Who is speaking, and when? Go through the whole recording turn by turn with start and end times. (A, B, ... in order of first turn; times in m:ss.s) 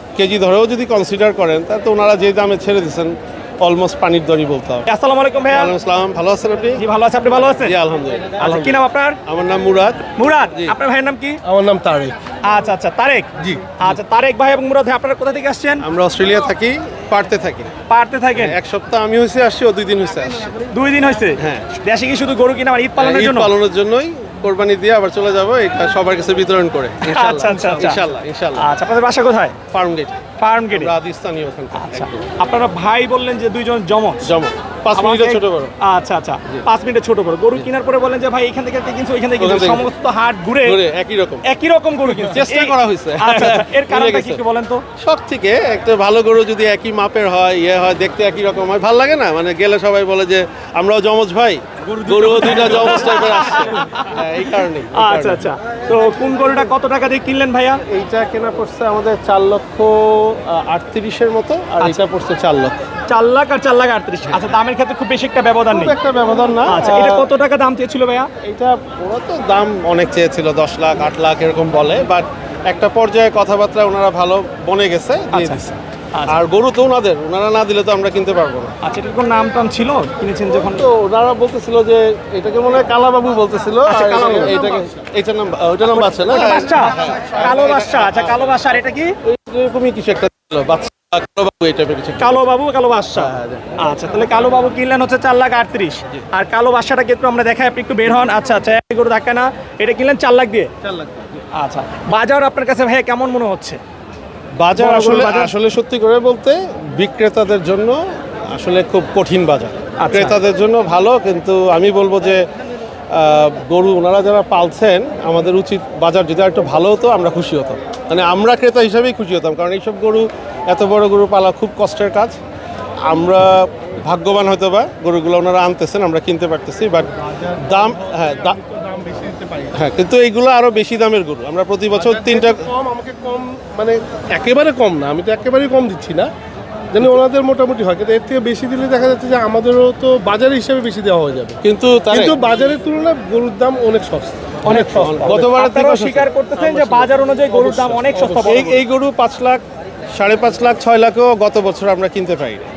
0:00.2-0:04.9 A
0:04.9-0:05.7 B
0:05.5-0:06.8 A
0:06.8-0:07.7 B
0:07.6-0:10.7 A
0:08.4-0:09.2 B
0:10.2-0:11.4 B
0:11.4-0:12.1 C
0:12.4-0:15.8 B
0:15.8-0:17.7 A
0:17.9-0:18.6 B
0:18.3-0:20.6 A
0:20.7-0:23.5 B
0:21.4-0:21.7 A
0:23.0-0:28.6 A
0:27.0-0:28.0 B
0:28.6-0:29.6 B
0:29.7-0:32.2 A
0:30.4-0:30.9 B
0:31.7-0:34.3 B
0:34.2-0:35.7 A
0:34.9-0:40.8 B
0:39.4-0:39.9 A
0:40.6-0:41.4 A
0:41.4-0:44.8 B
0:42.2-0:44.4 A
0:45.0-0:55.4 A
0:52.1-0:54.2 B
0:54.9-0:57.8 B
0:57.9-1:02.8 A
1:03.1-1:05.9 B
1:05.7-1:07.2 A
1:06.7-1:08.3 B
1:08.4-1:15.6 A
1:15.3-1:16.4 B
1:16.3-1:18.7 A
1:18.8-1:20.9 B
1:20.7-1:28.6 A
1:23.8-1:24.5 B
1:23.9-1:25.0 C
1:25.9-1:29.2 B
1:29.2-1:32.4 A
1:32.2-1:40.7 B
1:33.2-1:33.7 A
1:40.8-1:41.3 A
1:41.5-1:43.8 B
1:44.6-1:48.0 A
1:44.8-1:45.5 B
1:48.5-1:52.4 A
1:50.0-1:50.4 B
1:53.1-2:02.4 A
2:03.0-2:08.6 A
2:07.4-2:09.8 C
2:09.7-2:12.6 A
2:11.9-2:16.3 C
2:16.9-2:21.6 C
2:21.6-2:22.3 A
2:22.1-2:25.2 C
2:24.6-2:28.8 B
2:24.7-2:27.1 A
2:27.5-2:28.8 C
2:28.4-2:29.6 A
2:30.1-2:32.7 A